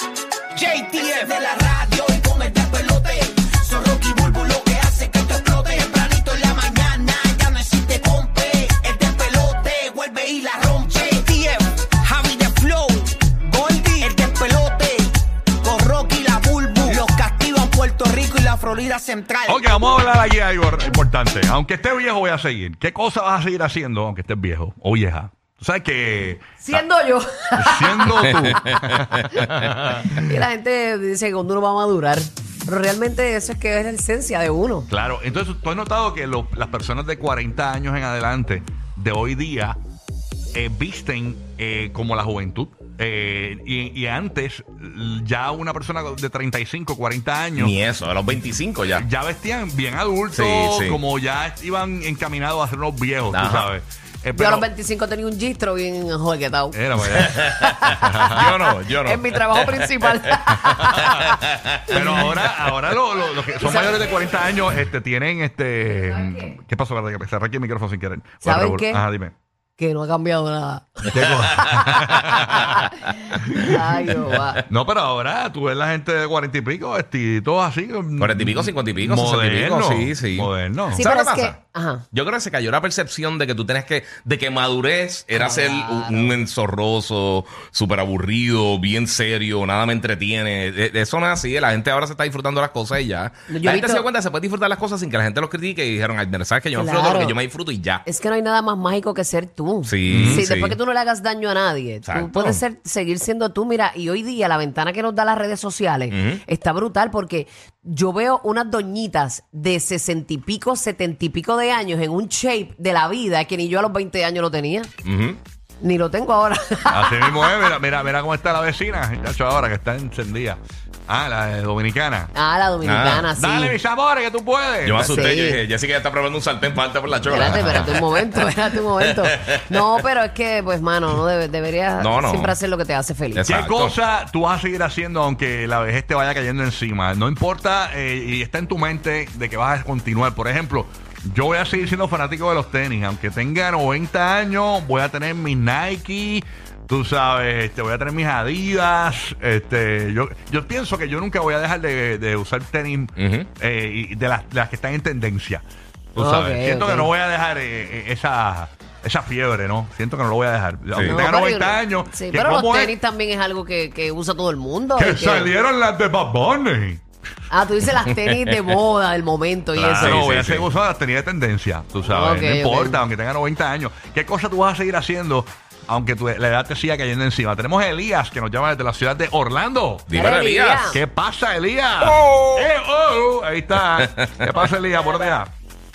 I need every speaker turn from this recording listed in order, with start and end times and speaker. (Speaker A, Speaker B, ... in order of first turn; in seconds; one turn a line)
Speaker A: 0.6-19.7
Speaker B: 19.4-26.9
Speaker C: 26.6-28.6
Speaker B: 27.6-30.1
Speaker C: 30.1-34.9
Speaker B: 34.9-39.8
Speaker B: 40.5-47.7
Speaker D: 47.6-49.0
Speaker B: 48.9-54.7
Speaker D: 50.3-51.0
Speaker D: 53.3-53.7
Speaker C: 54.3-62.2
Speaker B: 56.7-57.4
Speaker D: 57.1-57.5
Speaker B: 57.9-58.5
Speaker D: 58.4-60.4
Speaker B: 61.9-69.3
Speaker C: 63.6-64.0
Speaker C: 65.9-66.5
Speaker C: 68.4-69.0
Speaker C: 69.8-74.6
Speaker B: 71.1-72.8
Speaker B: 73.4-73.8
Speaker B: 74.7-81.1
Speaker D: 78.2-81.6
Speaker C: 80.9-82.1
Speaker D: 82.1-98.0
Speaker C: 85.3-86.3
Speaker C: 93.5-94.1
Speaker C: 96.7-97.4
Speaker C: 98.0-114.9
Speaker D: 99.8-100.8
Speaker B: 100.1-100.5
Speaker D: 102.0-102.6
Speaker D: 106.1-106.4
Speaker D: 115.0-115.4
Speaker C: 115.8-117.7
Speaker B: 116.9-122.3
Speaker C: 122.3-123.8
Speaker D: 122.8-123.3
Speaker B: 123.3-125.3
Speaker D: 124.8-128.4
Speaker C: 125.1-125.6
Speaker C: 127.3-133.5
Speaker B: 127.3-127.9
Speaker D: 132.0-132.5
Speaker D: 133.3-134.0
Speaker B: 133.4-162.9
Speaker D: 153.2-153.5
Speaker C: 156.2-157.1
Speaker D: 160.9-161.2
Speaker C: 161.0-165.5
Speaker B: 165.0-167.0
Speaker C: 167.5-170.2
Speaker B: 169.8-180.1
Speaker D: 170.0-170.6
Speaker C: 172.0-173.0
Speaker D: 180.1-180.9
Speaker C: 180.1-181.0
Speaker B: 180.9-185.5